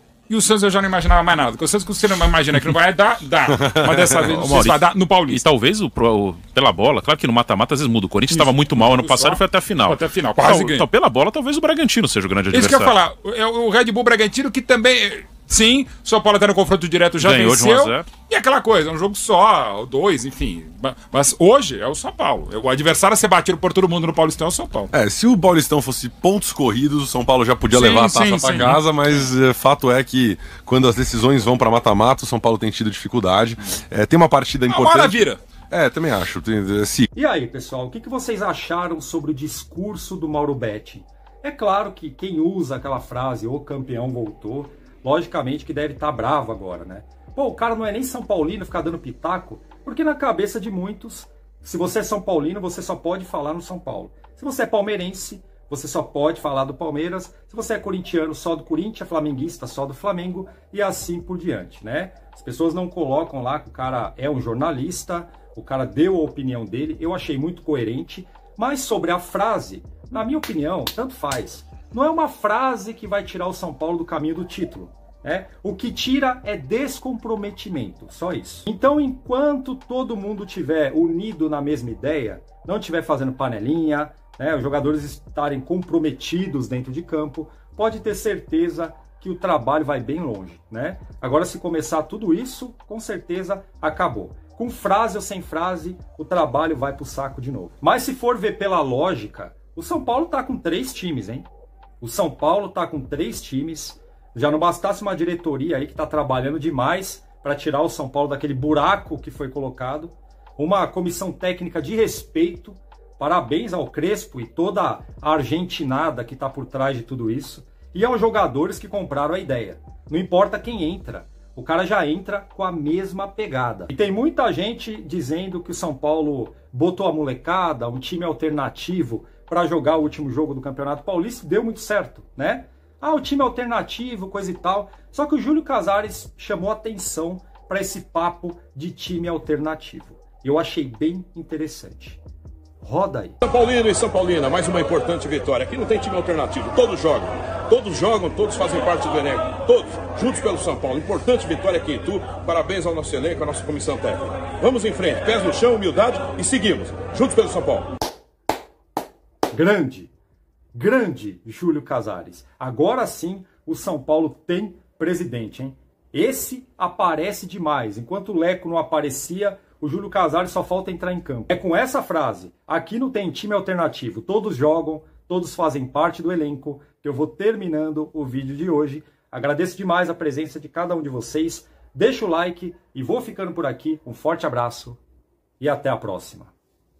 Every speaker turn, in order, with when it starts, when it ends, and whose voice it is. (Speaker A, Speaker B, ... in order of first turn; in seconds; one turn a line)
Speaker A: 0.3-5.4
Speaker B: 4.2-12.9
Speaker A: 8.3-10.8
Speaker A: 12.5-24.9
Speaker B: 17.2-18.1
Speaker C: 24.9-37.1
Speaker A: 27.7-28.8
Speaker A: 34.7-35.4
Speaker D: 37.1-101.5
Speaker D: 102.0-142.2
Speaker D: 142.8-143.4
Speaker E: 143.4-157.9
Speaker D: 159.5-160.1
Speaker D: 160.7-185.0
Speaker D: 185.6-186.5